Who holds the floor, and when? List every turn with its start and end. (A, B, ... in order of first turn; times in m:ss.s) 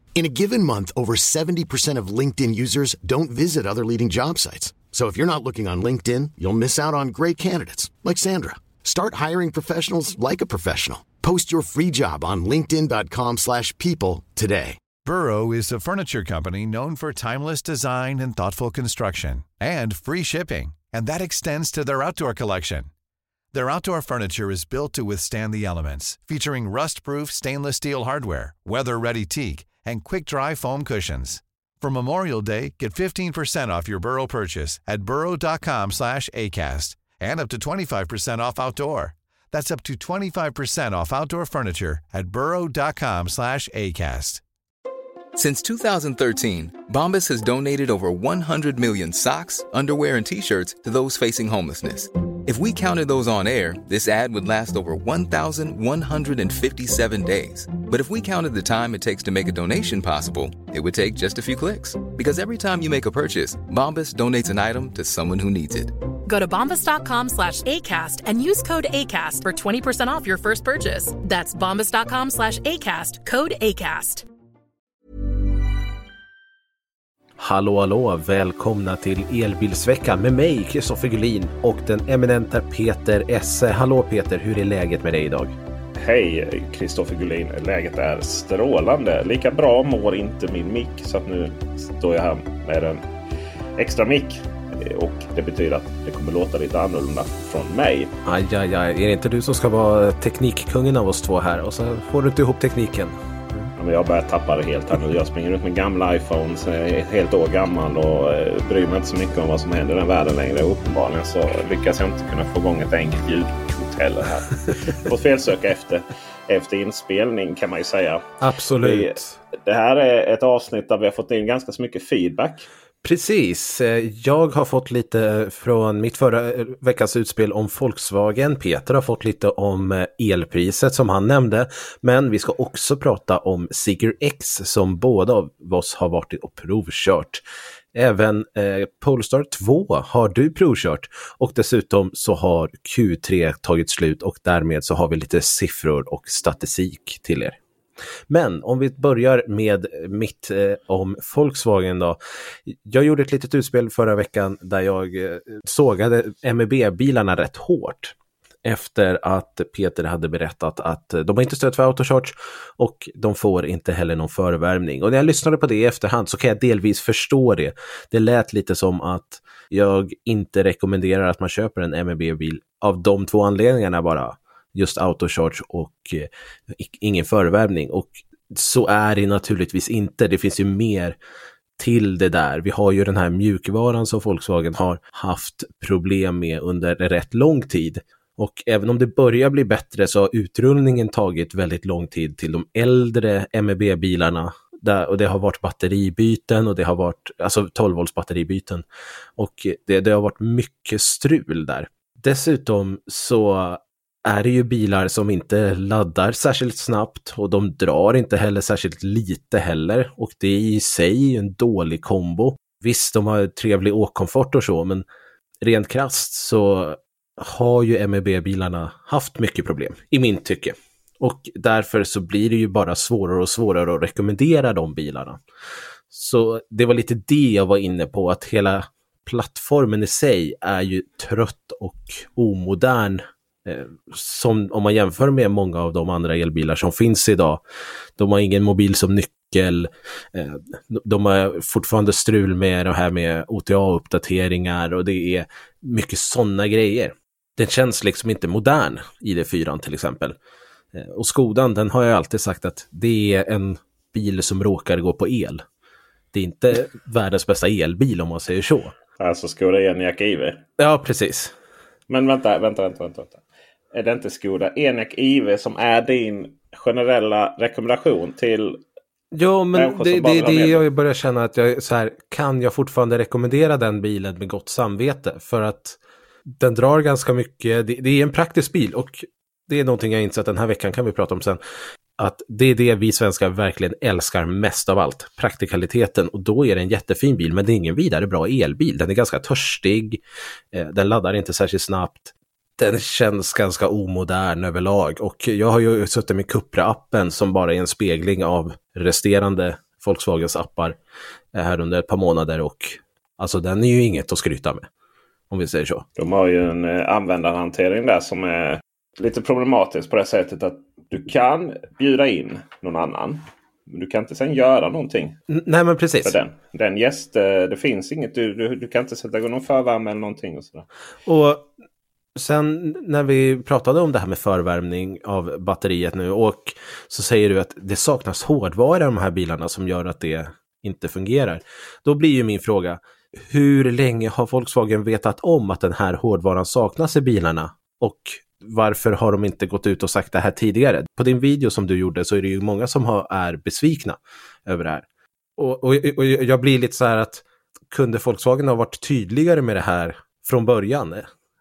0:00.2-0:14.8 A
0:15.0-0:22.9 B
0:23.5-0:44.4 B
0:45.4-1:05.9 C
1:06.3-1:14.3 D
1:17.4-1:25.6 E
1:26.0-1:33.0 F
1:33.8-1:38.1 F
1:38.2-1:43.7 E
1:43.8-2:02.7 F
1:58.4-1:59.4 E
2:03.0-2:27.6 E
2:28.3-3:01.2 E
3:01.8-3:18.8 E
3:19.4-3:35.0 E
3:35.6-3:45.4 E
3:46.1-3:57.6 E
3:58.2-4:10.4 E
4:10.9-4:15.6 E
4:16.3-4:18.9 E
4:19.2-4:20.6 F
4:20.8-4:21.6 E
4:22.1-4:23.4 F
4:23.9-4:28.8 F
4:29.3-4:36.0 E
4:29.7-4:30.8 F
4:36.6-4:41.6 E
4:42.2-4:50.2 E
4:50.7-5:01.0 E
5:01.5-5:04.9 E
5:05.5-5:06.1 E
5:06.2-5:15.4 F
5:15.5-5:16.4 E
5:16.2-5:20.9 F
5:21.3-5:21.7 E
5:22.4-5:45.1 E
5:45.6-5:51.3 E